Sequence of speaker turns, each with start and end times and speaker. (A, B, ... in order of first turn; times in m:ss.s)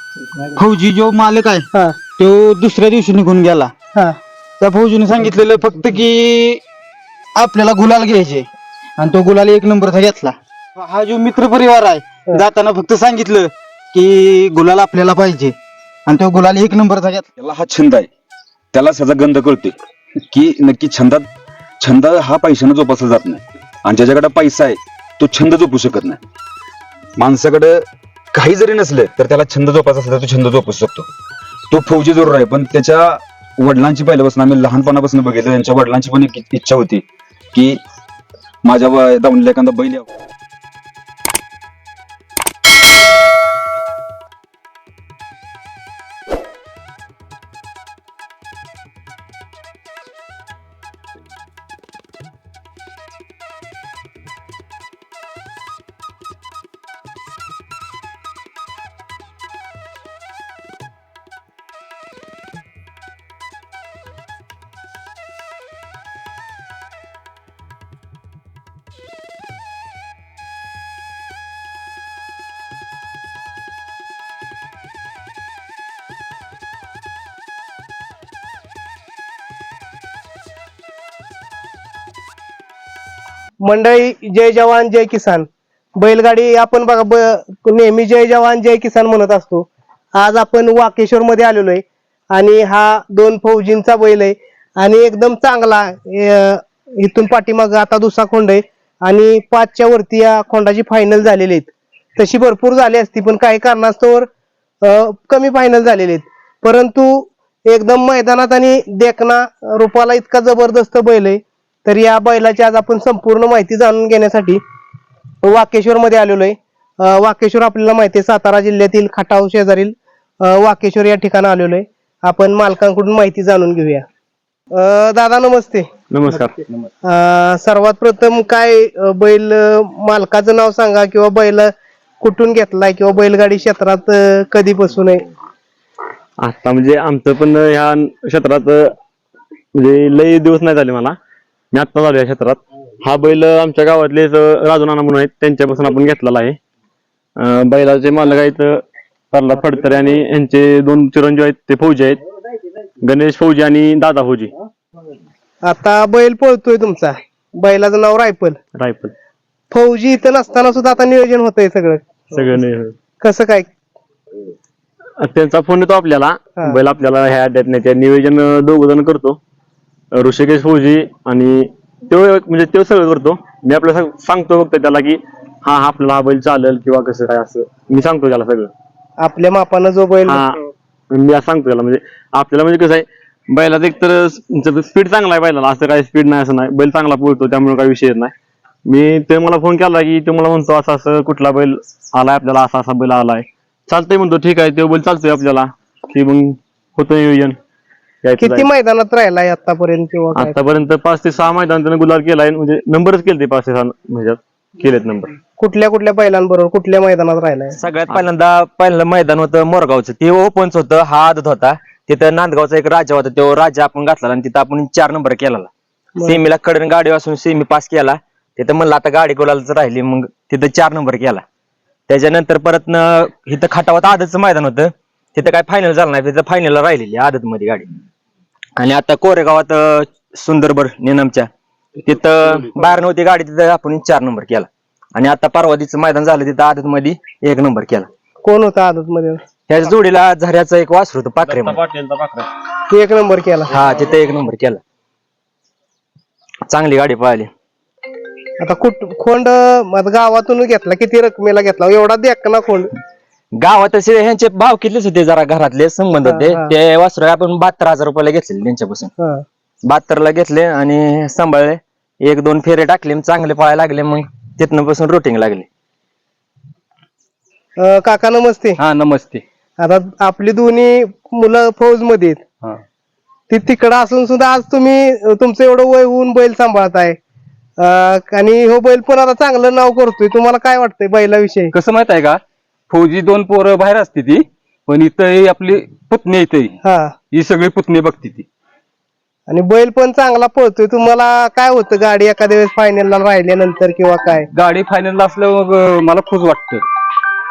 0:00.6-0:01.7 A
0:02.2-0:03.7 A
0:04.6-0:06.6 A
0:07.4-0:08.5 A
0:09.0-0:15.5 A
0:16.1-0:17.3 A
0:17.4-0:18.1 B
0:18.7-0:19.8 B
0:20.3-0:21.3 B
0:21.8-0:26.2 B
0:27.2-0:31.1 B
0:31.7-0:37.0 B
0:37.5-0:37.8 B
0:38.6-0:40.1 B
1:23.6-1:44.3 C
1:44.8-1:54.6 C
1:55.4-2:04.0 C
2:04.8-2:06.5 C
2:06.1-2:06.6 D
2:07.0-2:15.2 C
2:16.4-2:19.0 D
2:19.8-2:21.2 D
2:21.7-2:26.6 D
2:27.4-2:32.2 D
2:33.0-2:34.5 D
2:35.6-2:38.6 C
2:38.8-2:39.1 D
2:39.7-2:42.0 C
2:42.3-2:43.0 D
2:43.2-2:43.7 C
2:45.2-2:49.4 D
2:50.1-2:58.7 D
2:59.2-3:00.4 C
3:00.3-3:00.6 D
3:01.1-3:08.3 D
3:08.9-3:17.6 D
3:18.2-3:18.7 D
3:18.4-3:20.6 C
3:20.3-3:25.4 D
3:25.6-3:27.8 C
3:27.8-3:35.7 E
3:36.2-3:36.4 C
3:36.2-3:41.4 E
3:42.1-3:47.9 E
3:48.8-3:51.5 E
3:52.1-3:58.1 E
3:58.4-3:59.4 C
3:59.7-4:01.8 E
4:01.4-4:02.5 D
4:02.9-4:03.8 C
4:03.7-4:04.8 E
4:06.7-4:07.5 E
4:08.6-4:12.9 C
4:13.5-4:19.1 E
4:16.2-4:16.8 C
4:19.8-4:25.7 E
4:27.8-4:28.8 C
4:28.8-4:29.4 F
4:29.8-4:32.4 C
4:33.5-4:37.2 C
4:37.8-4:41.7 C
4:41.7-4:46.8 F
4:46.8-4:47.1 C
4:47.3-4:48.5 F
4:49.5-4:54.5 C
4:54.5-4:56.8 F